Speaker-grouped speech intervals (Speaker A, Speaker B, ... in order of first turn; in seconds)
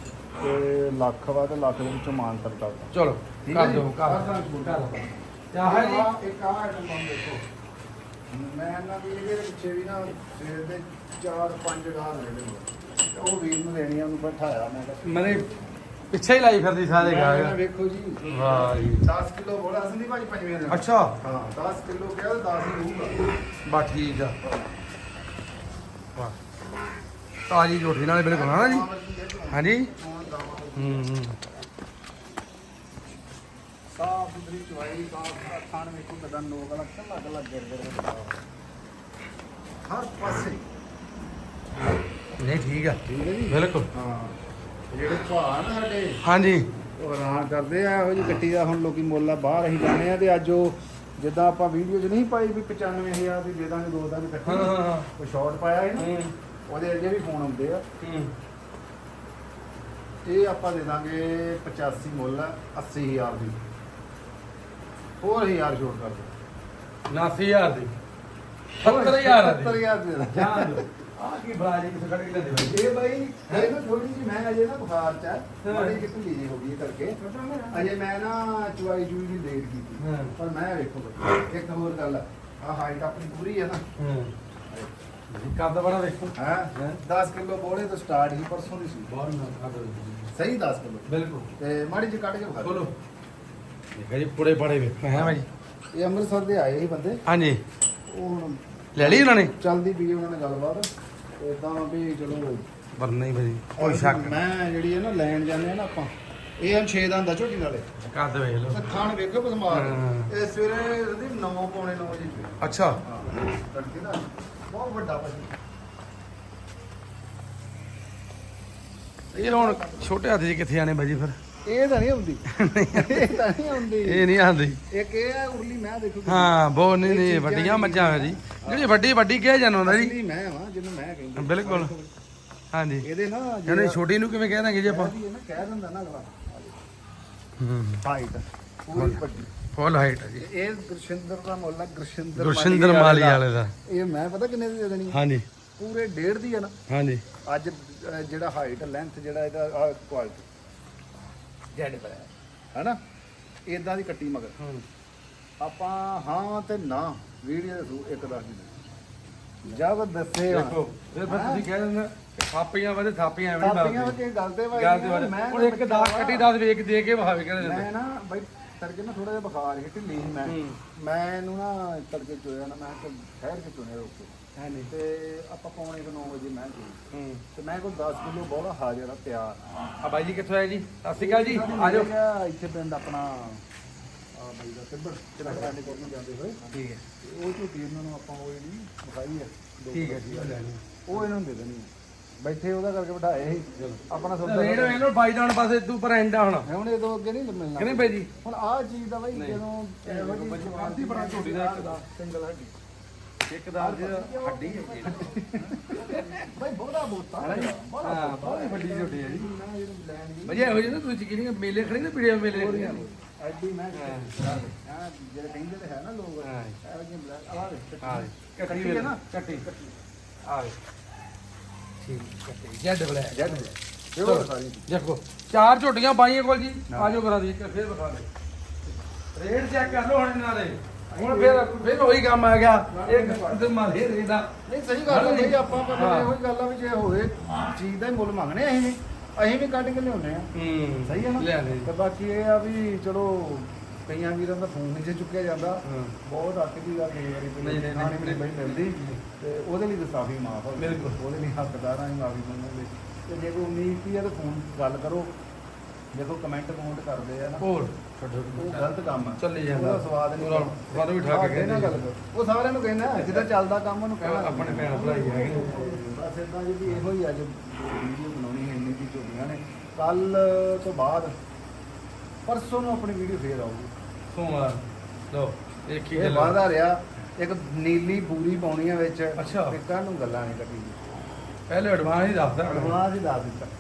Speaker A: 0.4-2.9, 3.4-7.4, 8.3-15.7, 16.9-23.3, 24.4-24.8, 28.2-31.1, 33.9-38.4, 39.9-40.6, 43.0-44.3, 44.9-46.2, 47.0-56.1, 56.7-57.8, 60.2-63.6, 65.2-66.3, 68.8-70.8, 72.6-83.8, 86.3-89.1, 90.3-91.1, 91.6-92.9, 95.1-95.4, 95.9-97.2, 98.1-100.9, 101.4-102.7, 103.8-107.8, 108.7-115.5, 119.3-120.1, 121.7-124.3, 124.9-128.9, 129.8-132.1, 133.0-134.0, 134.8-136.8, 138.0-139.5, 140.4-145.2, 145.8-146.7, 147.4-150.5, 153.7-154.6, 155.6-158.7, 159.6-161.7, 163.6-166.5, 167.6-179.6, 181.2-183.6, 184.3-186.7, 187.2-195.1, 196.6-202.7, 203.8-211.0, 212.4-220.0, 223.3-224.9, 226.9-227.2, 231.1-232.2, 232.9-233.8, 234.7-240.5, 241.0-255.3, 256.1-257.7, 258.5-271.3, 272.5-273.9, 276.1-281.1, 282.6-283.7
Speaker B: 2.9-4.9, 5.5-6.1, 15.0-15.4, 16.1-17.6, 18.2-19.0, 20.7-21.2, 23.7-24.4, 27.5-28.9, 29.5-29.9, 30.8-31.4, 42.4-43.9, 46.2-46.7, 54.5-55.1, 56.0-56.3, 58.0-58.3, 67.1-67.9, 68.8-72.8, 75.6-76.0, 80.0-80.3, 84.0-84.3, 85.3-87.0, 89.1-90.3, 91.1-91.5, 92.6-92.9, 94.0-95.5, 97.3-97.6, 99.0-99.5, 103.0-104.4, 108.0-108.8, 109.7-110.3, 112.6-113.0, 119.3-121.4, 122.5-123.4, 124.0-124.8, 126.2-130.2, 131.3-131.9, 132.7-133.1, 133.7-135.1, 137.6-138.0, 138.9-139.2, 139.7-140.5, 142.3-143.7, 145.1-145.5, 146.9-147.2, 151.7-152.3, 154.6-154.8, 160.5-164.2, 164.7-167.9, 170.4-170.8, 174.6-174.9, 177.1-177.4, 180.0-182.1, 185.4-186.0, 186.7-187.0, 189.9-191.2, 193.7-196.7, 197.8-198.3, 199.3-202.1, 203.5-206.3, 207.4-209.5, 210.4-213.0, 213.9-214.6, 216.4-216.8, 218.0-219.7, 220.5-220.8, 222.0-228.3, 229.3-234.5, 235.1-236.3, 240.5-241.9, 245.8-246.2, 247.6-249.2, 250.8-251.2, 257.6-262.0, 263.1-263.5, 264.2-266.0, 274.3-276.6, 279.4-279.8, 281.7-283.0